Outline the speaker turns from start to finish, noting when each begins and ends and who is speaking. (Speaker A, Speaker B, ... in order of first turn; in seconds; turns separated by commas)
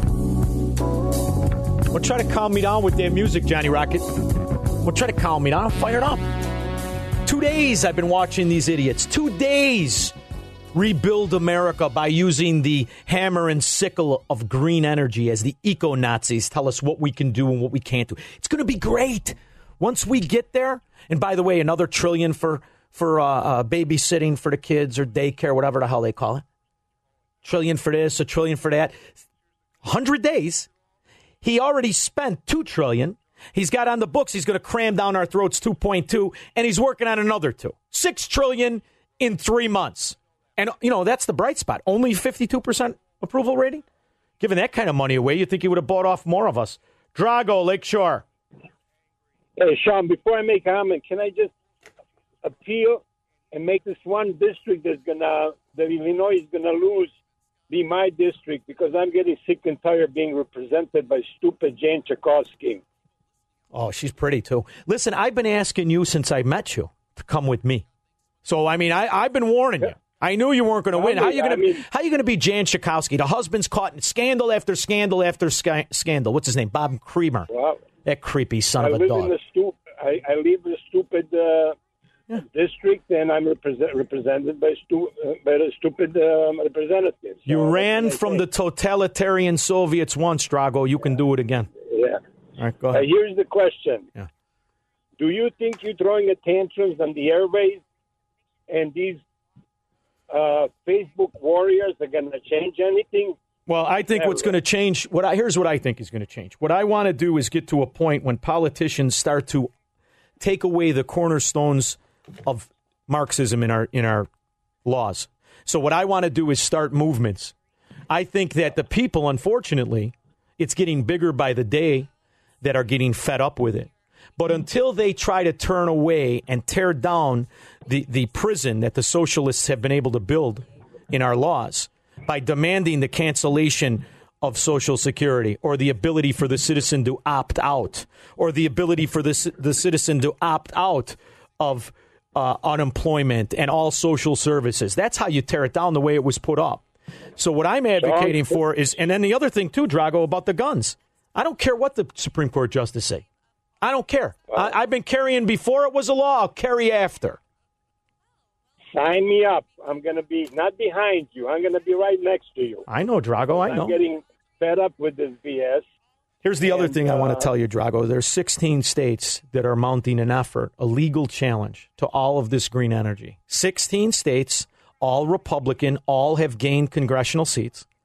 Speaker A: 1.9-4.0, Speaker A: 4.8-6.2, Speaker A: 7.2-10.1, Speaker A: 10.7-26.4, Speaker A: 27.4-29.1, Speaker A: 29.8-30.7, Speaker A: 31.4-43.8, Speaker A: 44.4-48.2, Speaker B: 49.6-51.5, Speaker B: 52.4-53.0, Speaker B: 53.5-57.1, Speaker B: 57.7-62.8, Speaker A: 63.7-67.8, Speaker A: 68.4-77.5, Speaker B: 70.9-71.8, Speaker B: 77.5-77.8, Speaker A: 78.0-79.3, Speaker B: 78.8-81.8, Speaker B: 82.4-88.4, Speaker A: 87.5-91.7, Speaker B: 91.9-92.2, Speaker A: 92.6-93.0, Speaker B: 92.9-94.1, Speaker B: 95.2-97.8, Speaker B: 98.7-99.2, Speaker B: 100.3-103.3, Speaker A: 103.7-109.7, Speaker B: 104.1-104.5, Speaker A: 110.4-114.3, Speaker A: 114.8-117.5, Speaker A: 118.1-122.1, Speaker A: 122.6-146.8, Speaker A: 147.4-153.2, Speaker A: 153.8-157.4, Speaker B: 158.9-162.8, Speaker A: 162.9-163.9, Speaker B: 163.5-165.8, Speaker A: 166.4-177.8, Speaker B: 166.6-167.5